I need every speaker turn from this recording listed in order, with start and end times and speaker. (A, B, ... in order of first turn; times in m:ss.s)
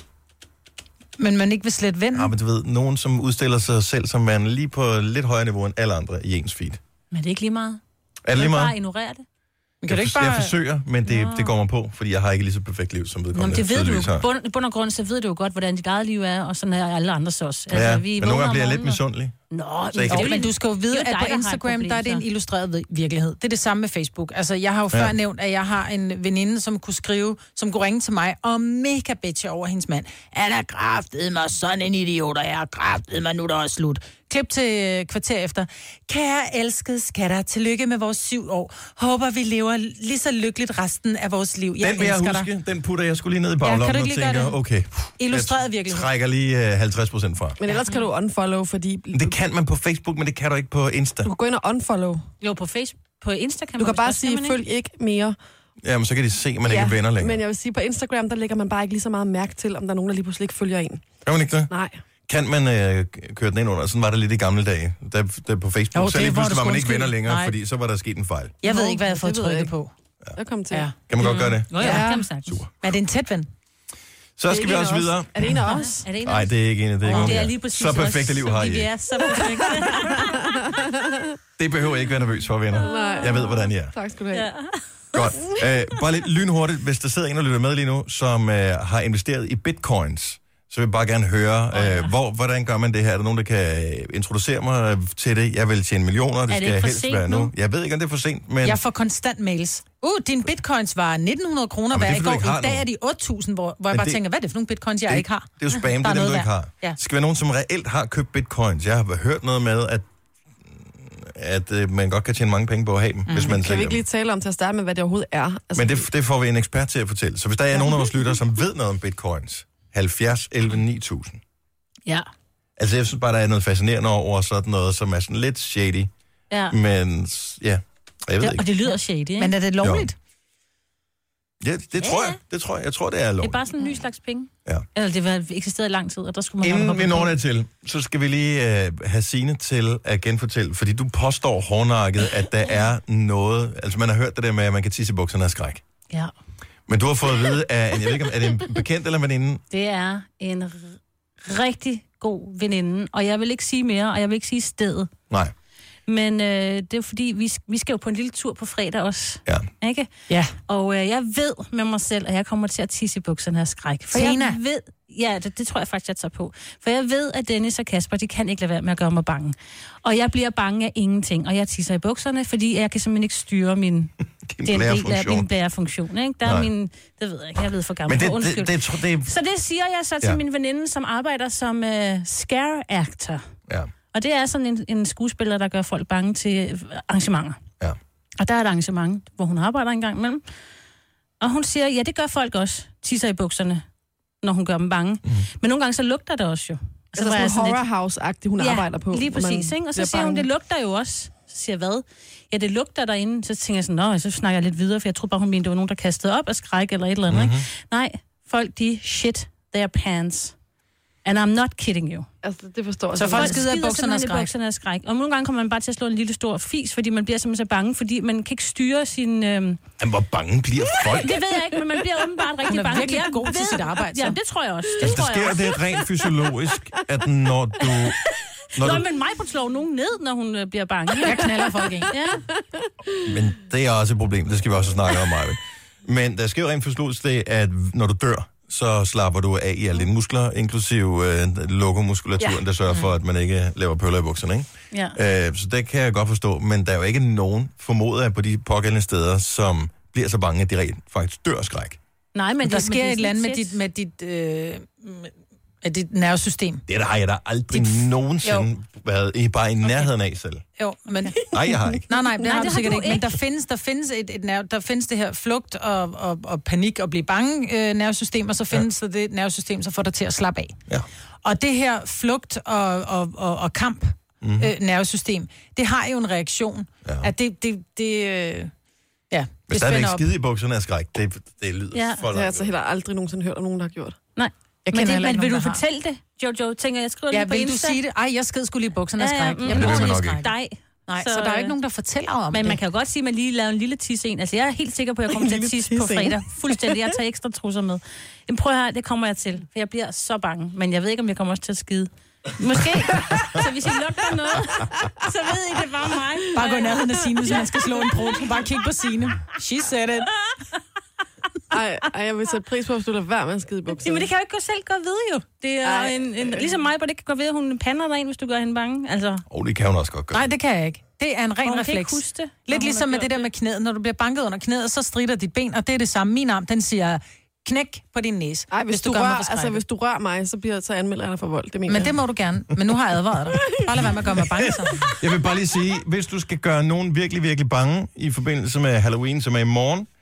0:01.2-0:02.3 A
0:02.1-0:06.8 B
0:07.1-0:07.8 C
0:08.2-0:08.8 B
0:08.4-0:09.2 C
0:09.8-0:10.5 A
0:09.9-0:14.3 B
0:11.1-0:11.5 C
0:13.3-0:19.0 C
0:17.7-0:19.4 B
0:19.5-0:22.2 C
0:19.9-0:20.4 B
0:20.1-0:42.5 A
0:41.8-0:47.6 B
0:43.6-0:44.6 A
0:45.2-0:46.1 A
0:47.6-0:49.4 D
0:49.1-0:51.3 B
0:51.2-0:52.2 D
0:52.4-0:54.6 C
0:53.8-0:55.4 D
0:55.8-0:57.4 B
0:56.6-1:01.0 D
1:01.2-1:01.7 B
1:01.7-1:02.0 D
1:02.3-1:08.6 B
1:05.9-1:07.5 A
1:08.6-1:09.9 A
1:08.6-1:09.7 D
1:10.4-1:10.9 D
1:11.1-1:12.7 B
1:11.2-1:12.6 C
1:11.8-1:12.1 A
1:11.8-1:12.2 D
1:12.8-1:13.5 A
1:14.4-1:15.6 B
1:14.5-1:16.0 D
1:15.7-1:20.4 C
1:16.2-1:18.9 B
1:17.1-1:17.4 A
1:19.2-1:20.1 A
1:20.2-1:21.3 D
1:21.6-1:23.9 B
1:22.8-1:23.5 C
1:22.8-1:24.5 D
1:24.3-1:24.8 C
1:25.1-1:38.8 B
1:31.7-1:32.1 C
1:36.5-1:37.5 C
1:38.6-1:47.0 A
1:41.9-1:42.8 B
1:43.9-1:44.2 B
1:45.1-1:50.1 B
1:50.7-1:54.0 B
1:53.3-1:53.6 A
1:53.4-1:56.1 D
1:55.8-2:01.4 B
2:02.8-2:06.1 B
2:06.5-2:06.8 C
2:06.7-2:08.7 B
2:08.4-2:09.6 C
2:09.4-2:10.2 A
2:09.8-2:10.1 B
2:11.6-2:13.6 B
2:12.0-2:12.4 C
2:13.4-2:17.3 C
2:16.6-2:25.8 B
2:26.9-2:29.6 B
2:29.7-2:35.1 C
2:36.1-2:40.1 C
2:40.3-2:40.6 A
2:40.7-2:54.1 C
2:44.1-2:44.6 A
2:54.5-2:55.5 B
2:54.6-3:03.4 C
2:56.4-2:56.7 B
2:58.1-2:59.3 B
3:04.1-3:07.6 C
3:08.4-3:10.4 C
3:11.4-3:13.8 C
3:14.4-3:17.8 C
3:17.2-3:20.5 D
3:18.6-3:30.5 C
3:27.3-3:27.7 B
3:31.2-3:32.3 C
3:32.4-3:33.6 D
3:33.2-3:34.5 A
3:33.2-3:39.8 C
3:40.0-3:41.4 B
3:41.2-3:45.9 C
3:42.7-3:44.4 A
3:45.0-3:48.2 B
3:48.8-3:49.1 B
3:48.8-3:52.4 C
3:51.2-3:52.1 A
3:53.2-4:12.0 B
4:04.9-4:05.2 C
4:12.4-4:13.8 C
4:12.6-4:16.8 A
4:16.9-4:20.6 B
4:17.7-4:18.6 A
4:20.8-4:21.5 A
4:21.5-4:22.1 B
4:22.1-4:30.8 A
4:22.4-4:23.4 C
4:31.4-4:38.7 A
4:34.4-4:34.7 B
4:37.0-4:37.3 B
4:39.3-4:40.3 A
4:39.7-4:42.7 B
4:41.9-4:42.3 C
4:42.3-4:44.2 D
4:44.4-4:48.0 C
4:44.9-4:45.8 A
4:47.3-4:50.5 A
4:49.2-4:51.8 C
4:49.7-4:50.4 B
4:51.1-4:52.8 A
4:52.5-5:08.4 C
4:55.3-4:56.4 D
5:06.5-5:10.3 A
5:11.7-5:14.3 D
5:13.9-5:19.4 C
5:15.8-5:16.7 D
5:19.5-5:20.5 B
5:20.3-5:29.8 A
5:21.6-5:23.5 C
5:28.7-5:32.2 D
5:31.9-5:35.0 A
5:35.0-5:40.1 B